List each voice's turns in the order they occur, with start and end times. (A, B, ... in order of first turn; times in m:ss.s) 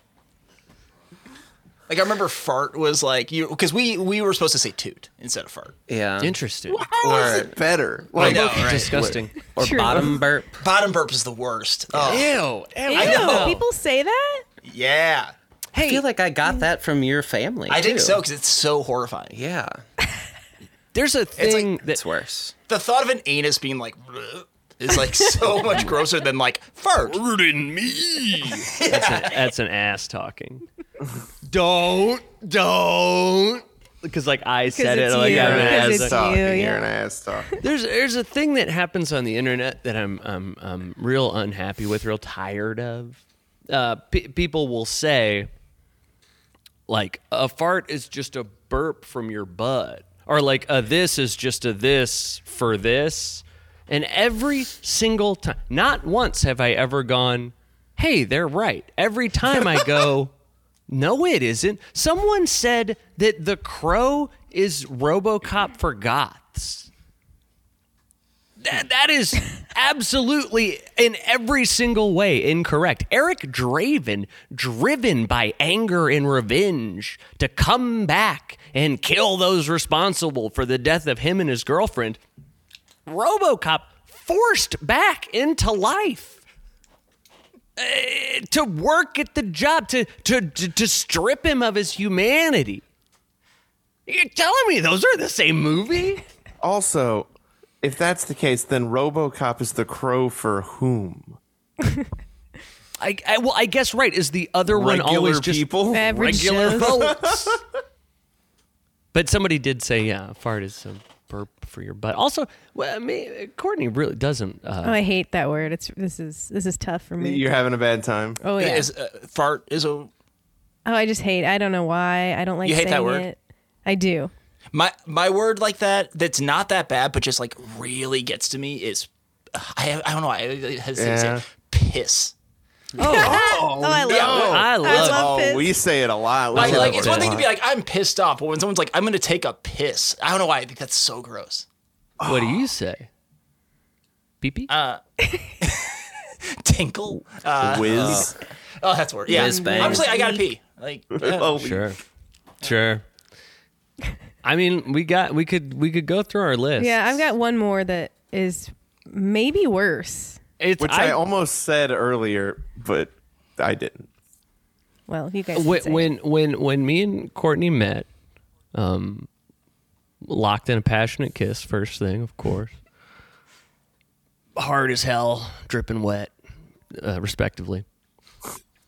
0:01.9-0:05.8 A
0:05.9-0:07.5 B
0:06.2-0:06.9 C
0:06.8-0:10.0 D
0:07.1-0:07.4 A
0:08.2-0:09.4 C
0:08.2-0:09.0 A
0:09.6-0:10.2 E
0:09.6-0:10.6 B
0:10.6-0:12.3 A
0:11.9-0:12.3 B
0:12.0-0:13.6 C
0:12.9-0:14.4 E
0:12.9-0:13.6 A
0:14.6-0:15.3 A
0:15.7-0:16.0 C
0:15.8-0:18.2 B
0:17.7-0:19.4 A
0:19.3-0:19.8 B
0:20.9-0:22.0 C
0:21.4-0:21.7 A
0:21.8-0:22.5 B
0:22.7-0:27.2 A
0:27.1-0:30.6 C
0:28.6-0:29.4 A
0:31.4-0:36.2 C
0:34.7-0:36.9 E
0:35.3-0:37.5 D
0:37.6-0:45.5 C
0:46.9-1:00.3 C
1:00.9-1:06.9 C
1:08.6-1:22.2 C
1:23.1-1:26.4 C
1:27.8-1:32.8 C
1:34.1-1:36.2 C
1:36.6-1:37.3 D
1:37.8-1:41.4 D
1:43.0-1:47.6 C
1:44.7-1:47.6 D
1:45.9-1:47.1 E
1:49.1-1:55.0 C
1:54.8-1:57.5 E
1:57.2-1:58.4 D
1:58.4-1:58.9 E
1:58.6-2:00.1 A
2:00.9-2:04.3 E
2:02.6-2:03.3 A
2:04.7-2:12.4 A
2:11.0-2:11.4 D
2:13.0-2:15.3 C
2:13.0-2:15.7 E
2:13.0-2:17.5 D
2:14.0-2:14.6 A
2:16.5-2:17.4 C
2:16.5-2:21.7 A
2:22.2-2:22.6 D
2:22.2-2:23.1 C
2:24.4-2:24.7 C
2:24.7-2:25.0 A
2:25.2-2:25.5 E
2:25.6-2:31.5 A
2:27.6-2:28.4 D
2:27.8-2:28.3 B
2:29.3-2:30.1 B
2:29.3-2:30.5 E
2:31.2-2:32.0 D
2:31.3-2:32.0 C
2:32.6-2:33.0 C
2:34.4-2:37.3 C
2:36.8-2:40.4 E
2:40.6-2:41.2 C
2:40.8-2:44.1 D
2:45.1-2:46.1 E
2:45.5-2:48.1 C
2:48.7-2:49.3 C
2:50.2-2:52.8 C
2:54.6-2:56.3 C
2:56.9-2:57.8 C